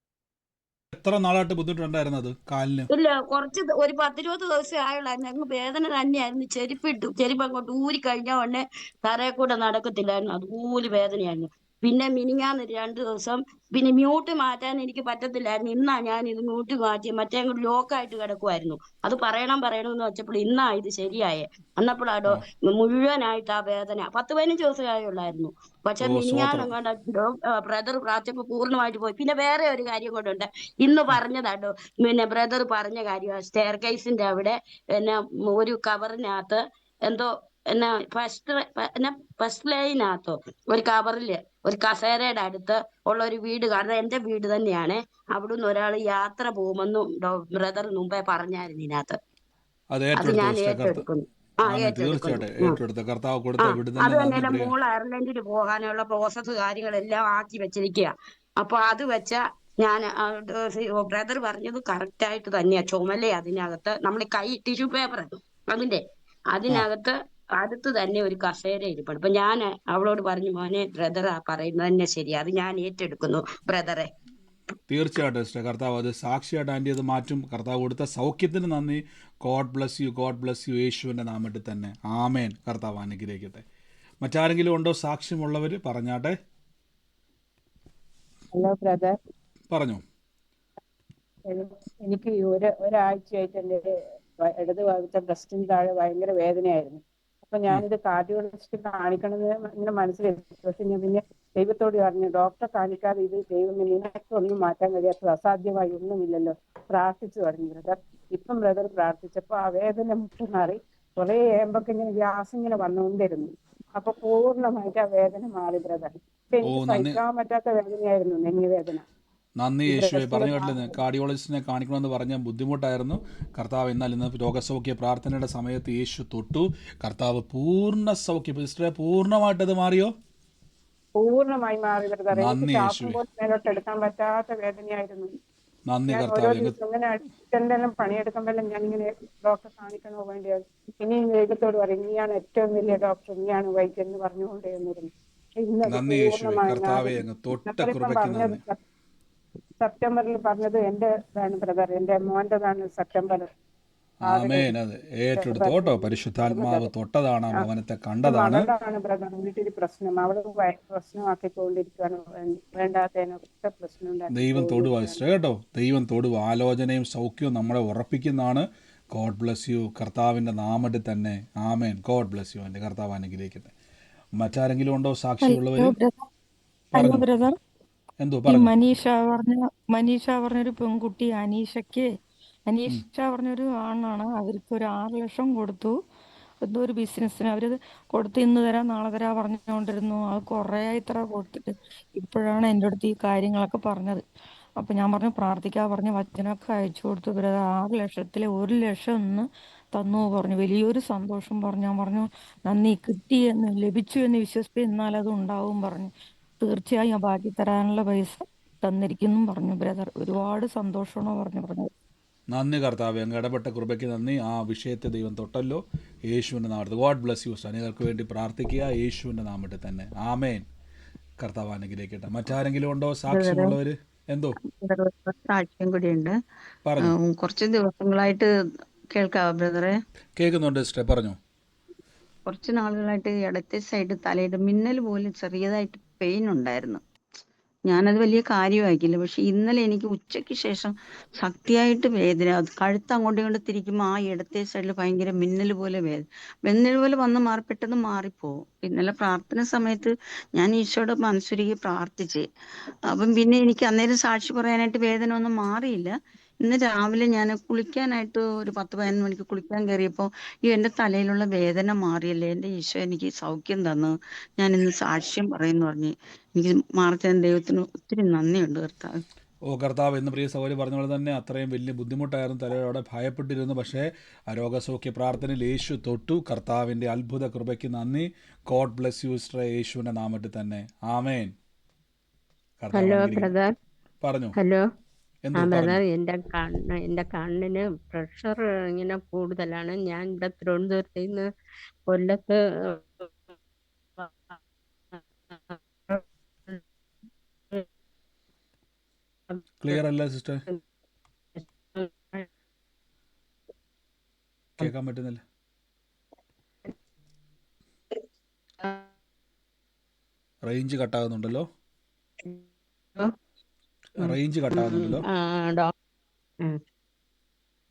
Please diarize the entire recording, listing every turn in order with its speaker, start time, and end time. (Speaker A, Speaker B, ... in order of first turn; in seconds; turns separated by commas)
Speaker A: 0.9-2.9, Speaker B: 2.9-49.2, Speaker A: 26.0-26.7, Speaker A: 49.9-51.0, Speaker B: 50.1-52.8, Speaker A: 51.6-54.7, Speaker B: 53.6-74.1, Speaker A: 74.9-83.6, Speaker A: 84.2-86.3, Speaker C: 88.5-89.1, Speaker A: 89.7-90.0, Speaker C: 91.5-93.9, Speaker C: 94.4-119.0, Speaker A: 116.6-117.2, Speaker A: 119.6-130.1, Speaker C: 119.9-120.9, Speaker C: 131.2-135.3, Speaker A: 132.3-133.2, Speaker A: 135.9-136.8, Speaker C: 136.1-148.8, Speaker A: 145.8-148.6, Speaker C: 149.8-153.5, Speaker C: 154.2-154.7, Speaker A: 154.2-158.7, Speaker C: 155.3-156.9, Speaker C: 158.2-165.2, Speaker A: 164.3-173.7, Speaker A: 174.4-175.9, Speaker D: 175.4-176.2, Speaker D: 176.9-177.5, Speaker A: 176.9-177.2, Speaker A: 178.2-178.7, Speaker D: 178.5-182.1, Speaker D: 182.7-185.9, Speaker D: 186.6-194.2, Speaker D: 194.8-211.9, Speaker A: 212.5-220.7, Speaker A: 221.4-224.5, Speaker E: 223.3-223.7, Speaker E: 224.7-226.4, Speaker A: 226.8-227.1, Speaker E: 227.0-228.5, Speaker E: 229.1-230.0, Speaker A: 230.4-231.4, Speaker E: 232.5-237.0, Speaker E: 237.9-252.5, Speaker E: 253.1-269.2, Speaker A: 269.7-281.5, Speaker A: 282.8-283.5, Speaker F: 282.9-283.7, Speaker A: 284.2-284.6, Speaker F: 284.6-284.8, Speaker A: 285.4-286.0, Speaker F: 285.6-291.4, Speaker F: 292.1-293.3, Speaker F: 295.7-296.8, Speaker A: 299.8-300.6, Speaker F: 301.9-302.4, Speaker A: 304.8-305.4, Speaker A: 310.6-311.6, Speaker A: 314.2-315.2, Speaker F: 315.3-315.9